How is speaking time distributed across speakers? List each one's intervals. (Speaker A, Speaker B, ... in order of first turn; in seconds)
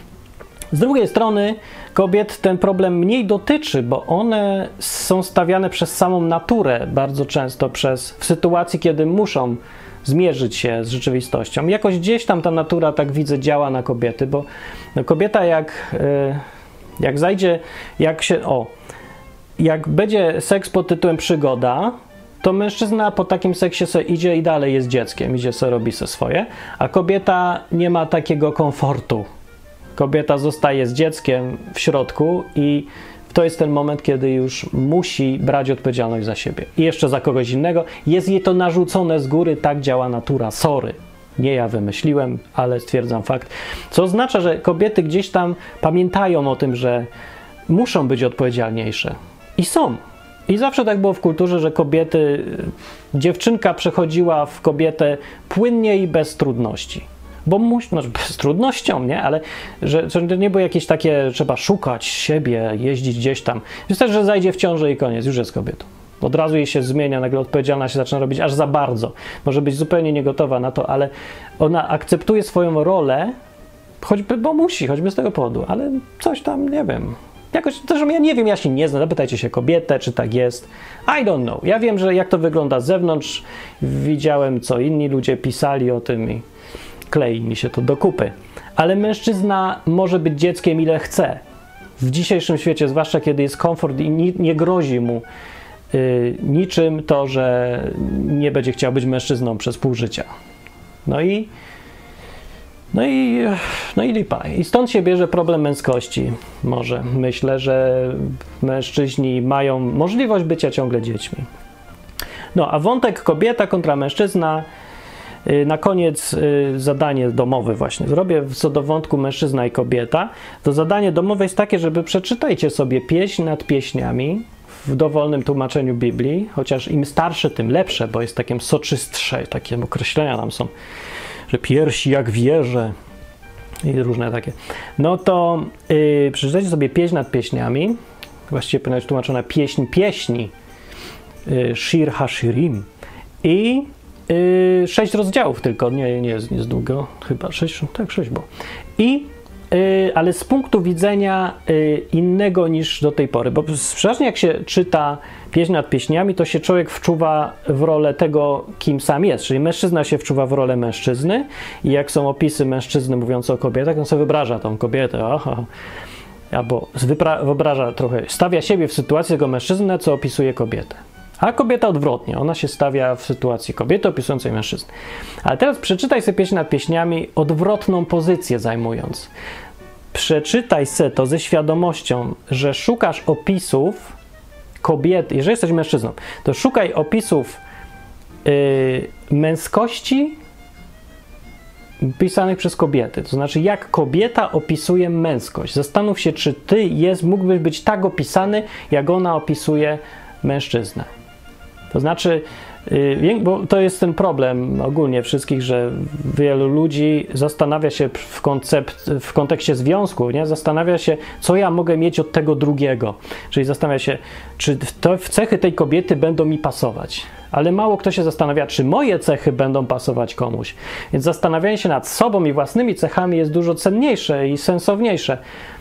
Speaker A: 0.7-16.4, 17.0-18.7, 19.6-29.2, 29.9-47.1, 47.7-73.3, 74.0-86.4, 87.1-91.4, 92.0-95.2, 95.9-100.3, 101.0-101.5, 102.9-111.5, 112.5-114.7, 115.4-130.7, 131.5-132.9, 133.8-137.9, 138.5-140.5, 141.4-142.8, 143.4-165.7, 166.5-174.9, 175.4-179.3, 180.1-184.2, 184.8-187.6, 188.4-190.4, 192.0-201.1, 201.9-225.4